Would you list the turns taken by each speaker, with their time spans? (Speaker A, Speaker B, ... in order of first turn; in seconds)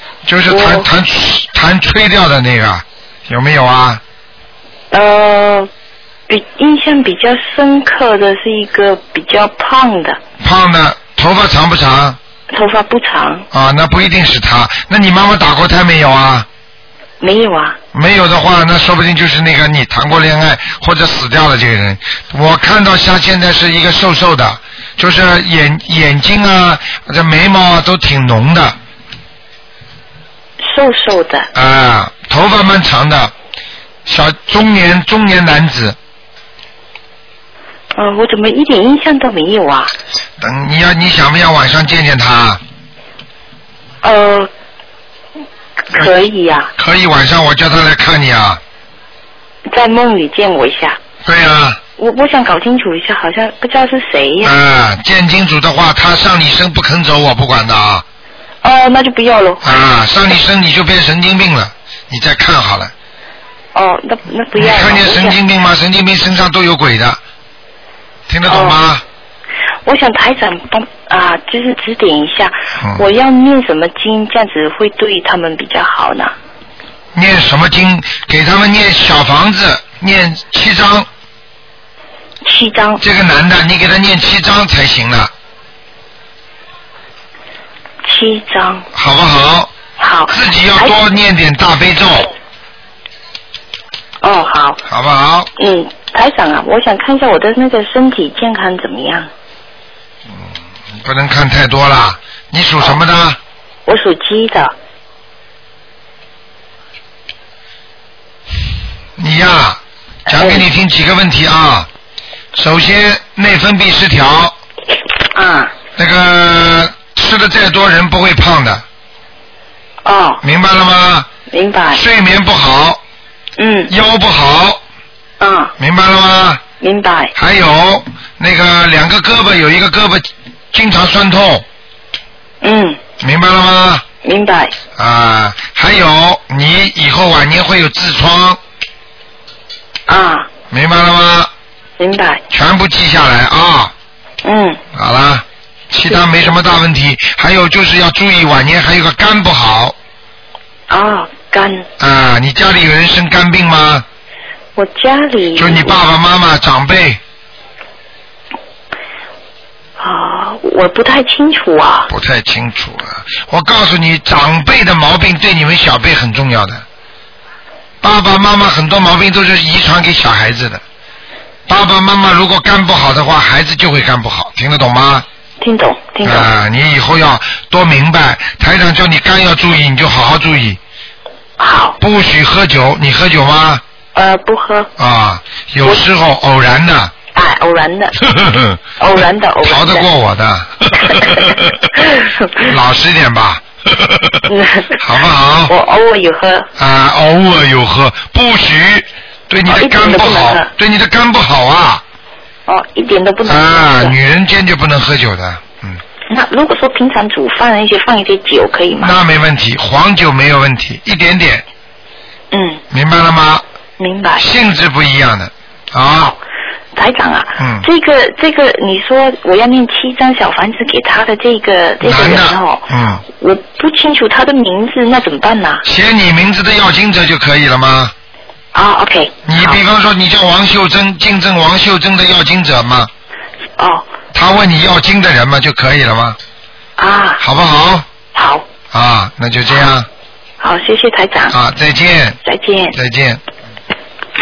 Speaker A: 0.2-4.0, 10.4-12.2, 13.5-16.5, 17.9-28.8, 31.5-33.3, 34.0-36.0, 40.4-42.6, 46.8-48.6, 51.2-51.8, 54.4-58.0, 59.6-62.9, 64.5-67.2, 68.3-69.0, 72.8-73.0, 77.1-81.1, 83.0-85.3, 88.9-89.7, 90.3-92.3, 94.9-95.5, 100.3-103.4, 109.2-111.9, 112.5-114.5, 116.0-118.8, 120.4-121.3, 121.9-123.0, 123.9-124.8, 125.8-126.6, 127.3-131.6, 133.2-134.1, 135.0-138.6, 140.7-141.5, 142.5-143.9, 144.9-149.9, 152.0-154.0, 155.6-157.2, 162.1-166.8, 168.0-170.8, 171.7-175.2, 176.2-180.8, 182.0-183.8, 185.0-187.1, 188.2-188.8, 189.6-191.7, 192.6-194.4, 195.0-195.7, 196.8-202.0, 203.4-206.0, 209.0-211.6, 212.9-213.6, 214.4-216.3, 217.6-217.8, 222.0-223.2, 225.8-228.1, 229.4-233.1, 234.3-236.4, 237.4-238.1, 238.9-240.1, 241.5-242.4, 242.9-243.4
Speaker B: 0.5-0.9, 4.9-5.7, 6.3-10.2, 12.5-13.5, 17.2-17.8, 30.6-31.5, 37.9-39.9, 44.0-44.5, 45.9-46.7, 49.7-51.0, 52.0-54.6, 58.6-59.8, 63.7-65.4, 68.5-68.8, 69.8-76.3, 82.4-83.0, 88.0-88.8, 90.0-91.0, 94.2-94.8, 95.6-99.3, 103.8-104.7, 110.3-110.7, 115.3-115.7, 120.0-120.4, 121.5-122.0, 123.6-123.9, 125.4-125.7, 126.8-127.3, 132.6-133.0, 134.2-134.7, 140.1-140.5, 142.0-142.4, 144.4-144.8, 146.1-146.4, 150.9-151.9, 154.8-156.0, 160.0-162.1, 175.6-176.5, 181.6-182.0, 184.1-184.9, 187.3-188.2, 189.0-190.1, 194.5-195.0, 195.7-196.7, 199.7-200.7, 202.7-204.1, 206.3-209.2, 212.5-212.8, 214.0-214.4, 216.9-225.8, 228.7-229.8, 233.8-234.1, 237.0-237.4, 238.3-238.6, 240.6-241.6, 242.4-243.0